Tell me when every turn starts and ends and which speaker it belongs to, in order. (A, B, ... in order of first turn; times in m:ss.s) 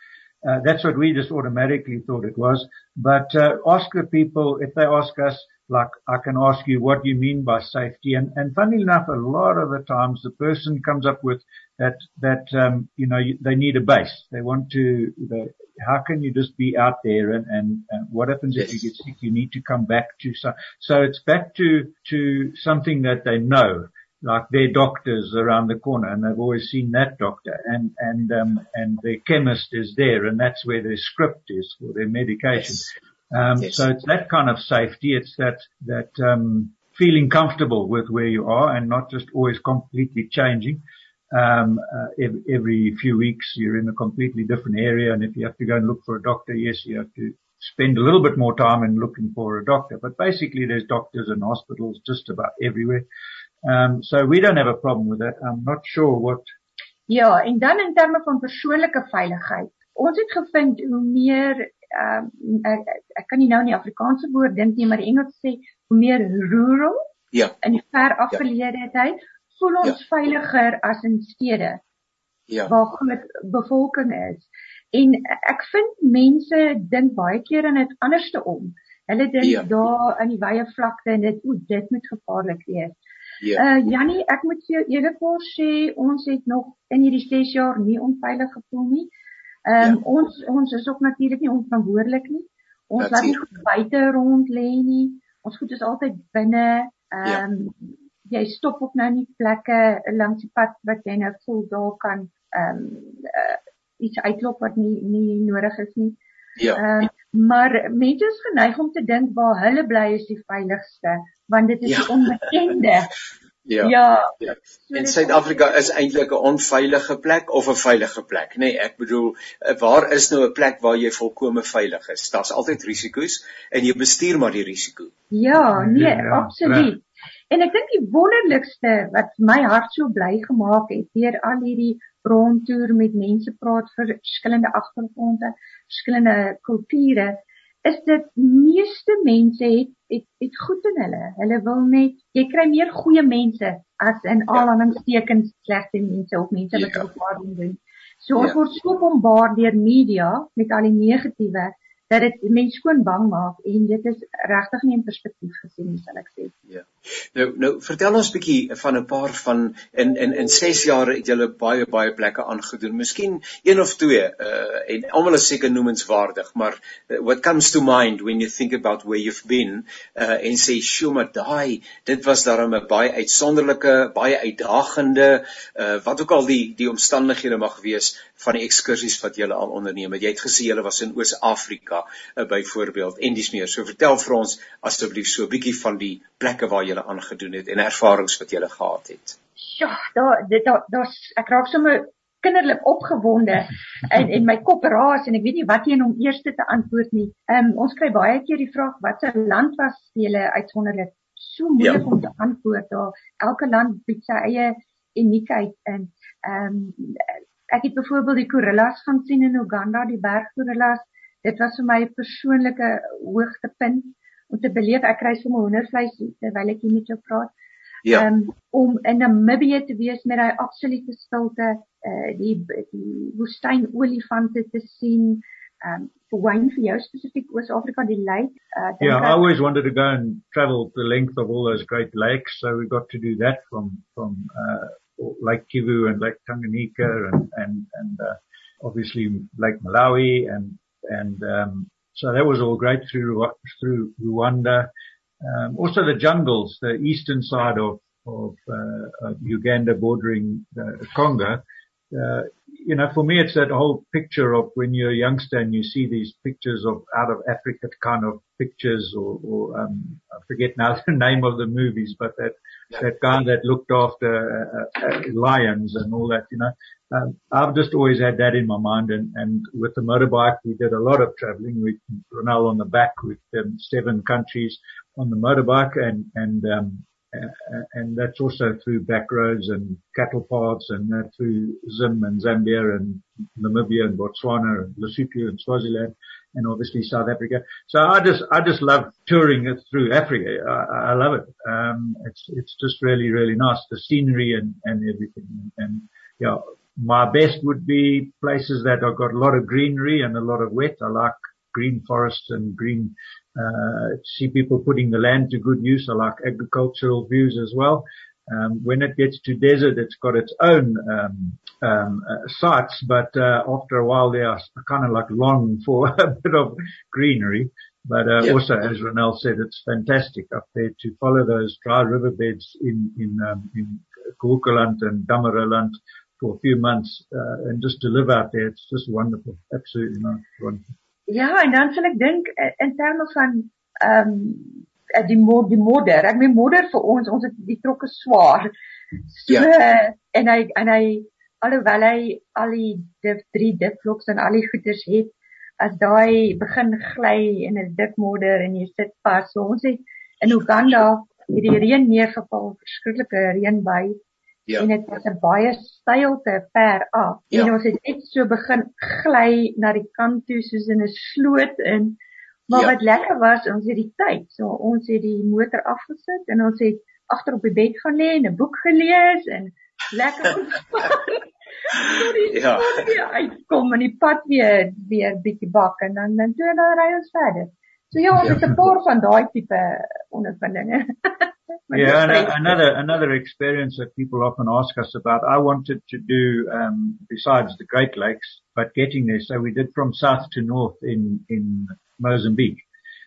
0:00.4-0:53.0 A
0:53.6-0:56.4 A
0:57.1-1:07.0 B
1:07.6-1:11.8 B
1:12.6-1:23.0 B
1:19.4-1:19.7 C
1:23.5-1:29.1 B
1:29.6-1:46.2 B
1:33.0-1:33.4 C
1:46.6-1:47.1 C
1:46.7-1:53.1 B
1:51.8-1:52.1 C
1:53.7-2:05.1 C
1:53.8-1:54.3 B
1:54.9-1:55.9 B
2:05.3-2:36.5 B
2:05.7-2:06.9 A
2:26.8-2:27.0 C
2:36.7-3:09.4 C
3:09.6-3:37.5 B
3:38.1-3:49.4 B
3:49.0-4:04.9 A
4:05.4-5:30.8 A
5:31.3-5:38.7 B
5:39.3-5:54.2 B
5:54.8-6:22.7 B
6:11.9-6:12.9 C
6:21.9-6:32.8 A